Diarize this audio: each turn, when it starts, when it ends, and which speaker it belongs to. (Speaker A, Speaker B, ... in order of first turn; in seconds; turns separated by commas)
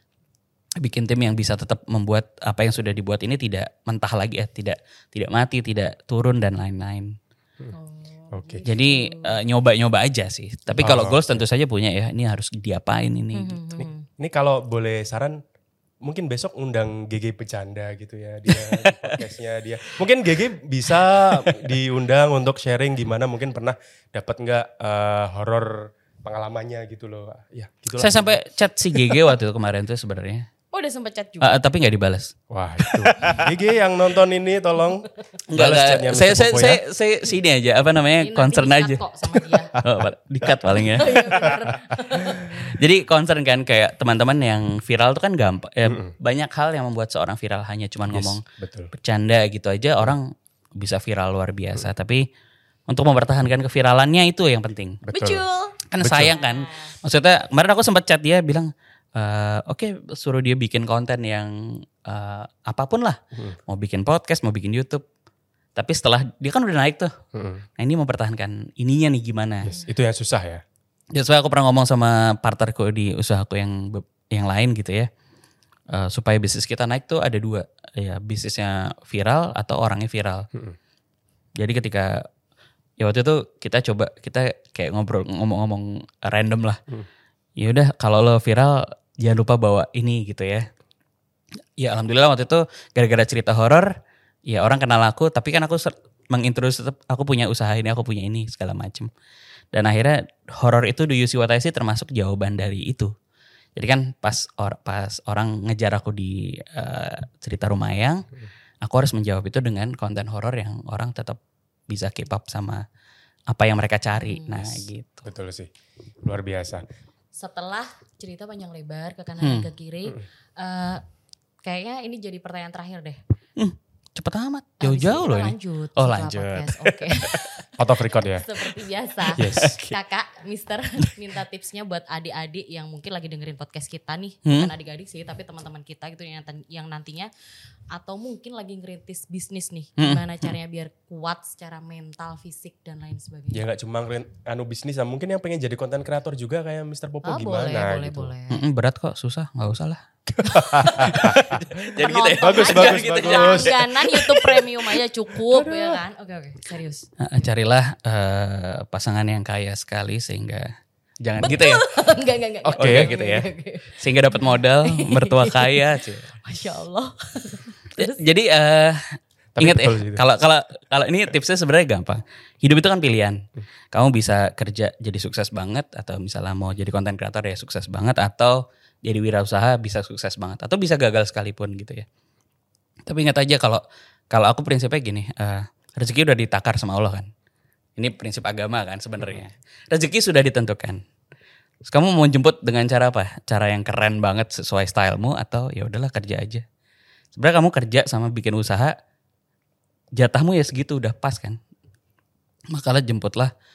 Speaker A: 0.8-7.1, Speaker B: 7.7-9.3, Speaker C: 8.3-8.6, Speaker A: 8.6-13.6, Speaker C: 10.8-11.4, Speaker B: 13.3-14.1, Speaker C: 14.2-15.4, Speaker C: 16.0-28.4, Speaker A: 28.0-30.5, Speaker B: 30.7-31.6, Speaker A: 31.4-33.5, Speaker C: 32.5-36.8, Speaker A: 35.5-41.5, Speaker B: 38.2-39.7, Speaker B: 40.9-42.7, Speaker A: 42.2-48.4, Speaker C: 45.8-46.1, Speaker C: 48.1-48.9, Speaker A: 48.9-52.2, Speaker A: 52.9-55.0, Speaker C: 55.0-55.4, Speaker B: 55.1-57.0, Speaker A: 55.9-65.0, Speaker C: 56.0-56.3, Speaker A: 65.8-67.1, Speaker C: 67.3-67.6, Speaker A: 67.8-69.8, Speaker C: 69.6-70.6, Speaker A: 71.1-75.1, Speaker A: 75.9-80.5, Speaker A: 81.6-82.3, Speaker A: 83.0-86.8, Speaker A: 87.6-90.7, Speaker A: 91.8-93.9, Speaker A: 94.5-99.1, Speaker A: 99.7-103.1, Speaker A: 103.8-108.2, Speaker A: 108.8-112.8, Speaker A: 113.5-115.2, Speaker B: 114.2-114.8, Speaker C: 115.2-115.7, Speaker C: 116.2-116.8, Speaker B: 117.3-121.0, Speaker A: 119.4-119.7, Speaker B: 121.6-123.2, Speaker A: 123.6-127.7, Speaker B: 124.8-127.7, Speaker C: 127.8-128.4, Speaker B: 128.3-137.3, Speaker A: 129.3-129.9, Speaker C: 129.4-129.8, Speaker B: 137.9-143.7, Speaker A: 140.0-140.5, Speaker C: 143.5-148.3, Speaker B: 147.2-148.6, Speaker A: 148.5-150.0, Speaker C: 150.4-151.6, Speaker B: 150.5-157.1, Speaker A: 150.8-154.9, Speaker C: 152.4-153.7, Speaker A: 157.2-160.7, Speaker A: 161.2-161.8, Speaker B: 161.4-165.8, Speaker C: 162.6-163.1, Speaker A: 162.8-163.4, Speaker A: 164.0-166.3, Speaker B: 166.4-168.2, Speaker A: 168.0-182.1, Speaker C: 169.6-170.2, Speaker A: 183.1-187.3, Speaker A: 188.0-191.0, Speaker A: 191.8-196.6, Speaker A: 197.3-198.9, Speaker A: 200.2-201.6, Speaker A: 202.7-203.5